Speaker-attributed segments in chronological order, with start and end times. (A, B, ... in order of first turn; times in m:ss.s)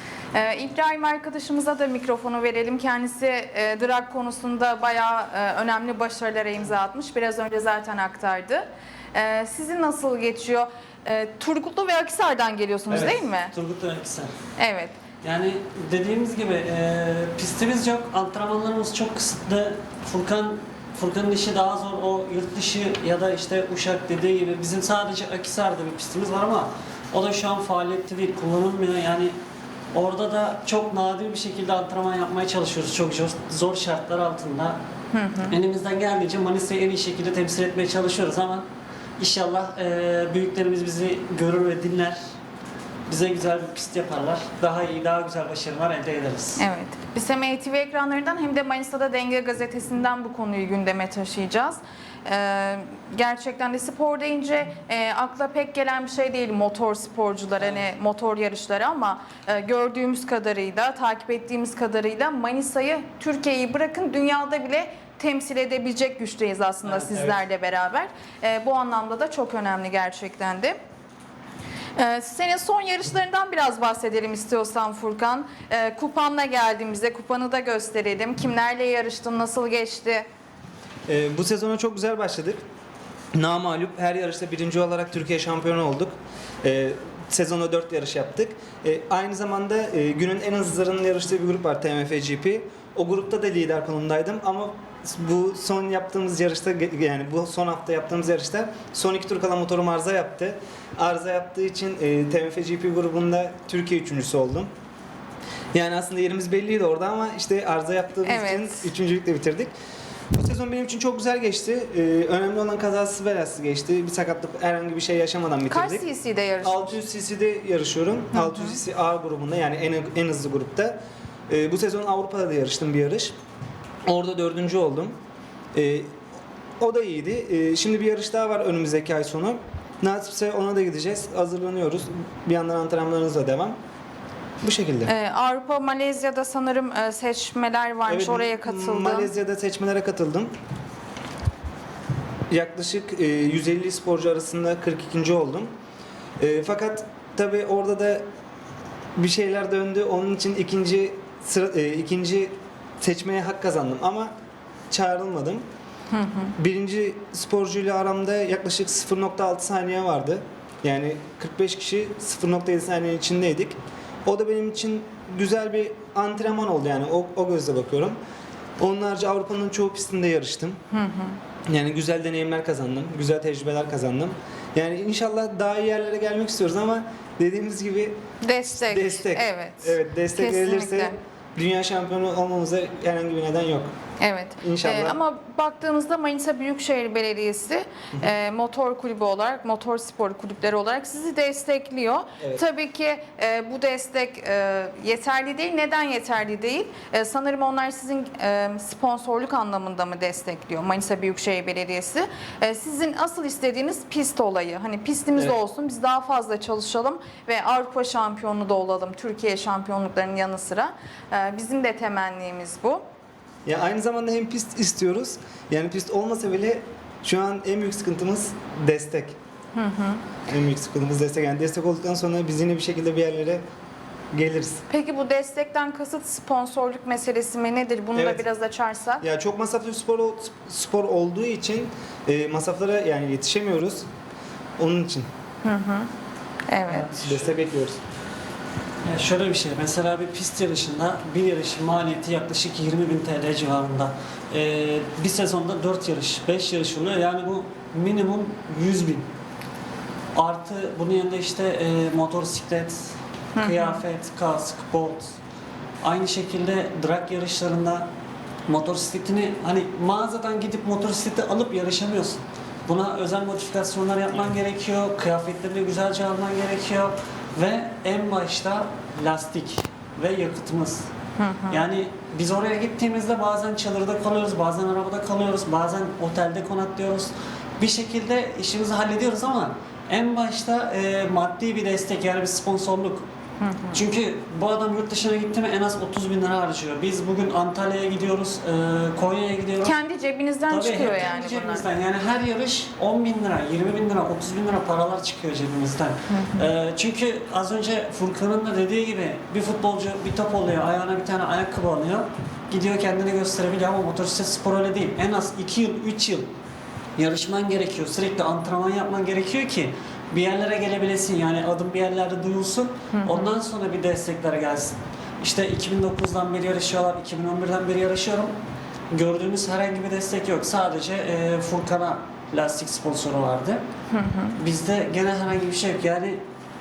0:00.3-0:13.5 A
0:12.9-0:14.3 B
0:14.6-0:15.0 A
0:15.2-0:29.4 B
0:29.9-0:34.8 B
0:35.1-0:35.6 A
0:35.5-0:38.6 B
0:39.2-0:42.2 B
0:43.1-0:46.6 B
0:46.6-1:10.8 A
1:06.8-1:07.4 B
1:12.0-1:20.2 A
1:21.1-1:22.6 C
1:23.3-1:44.7 C
1:45.7-1:49.7 C
1:48.2-1:48.9 A
1:50.3-1:56.0 C
1:55.7-1:56.9 A
1:56.6-2:01.0 C
1:58.3-1:58.8 A
2:01.5-2:03.3 C
2:04.0-2:05.2 C
2:05.7-2:06.1 C
2:06.8-2:13.8 C
2:14.6-2:15.1 C
2:15.0-2:19.3 A
2:18.0-2:20.5 C
2:22.5-2:25.7 C
2:26.4-2:28.2 C
2:29.2-2:34.3 C
2:34.9-2:35.6 C
2:36.1-2:36.5 A
2:36.6-2:48.2 C
2:48.8-2:50.8 C
2:50.9-2:51.4 A
2:51.7-2:58.2 C
2:58.4-3:01.2 A
2:58.8-3:03.9 C
3:04.2-3:33.0 A
3:04.6-3:05.2 C
3:33.6-3:39.4 C
3:39.7-3:40.2 A
3:40.5-3:43.6 C
3:44.3-3:44.8 C
3:44.9-3:49.2 A
3:48.1-3:48.4 C
3:49.2-3:54.0 C
3:54.8-3:55.3 C
3:55.6-3:56.1 A
3:56.7-3:57.1 A
3:57.1-3:58.0 C
3:59.0-4:09.3 B
4:10.3-4:15.4 B
4:13.6-4:14.0 A
4:16.0-4:18.1 B
4:18.7-4:31.1 B
4:31.4-4:31.8 A
4:31.7-4:43.2 B
4:43.6-4:44.0 A
4:43.9-4:50.0 B
4:49.8-4:51.9 A
4:50.7-5:06.5 B
4:56.3-4:56.7 A
5:07.2-5:18.5 B
5:13.1-5:13.5 A
5:19.1-5:23.8 B
5:24.1-5:24.6 A
5:24.6-5:26.4 B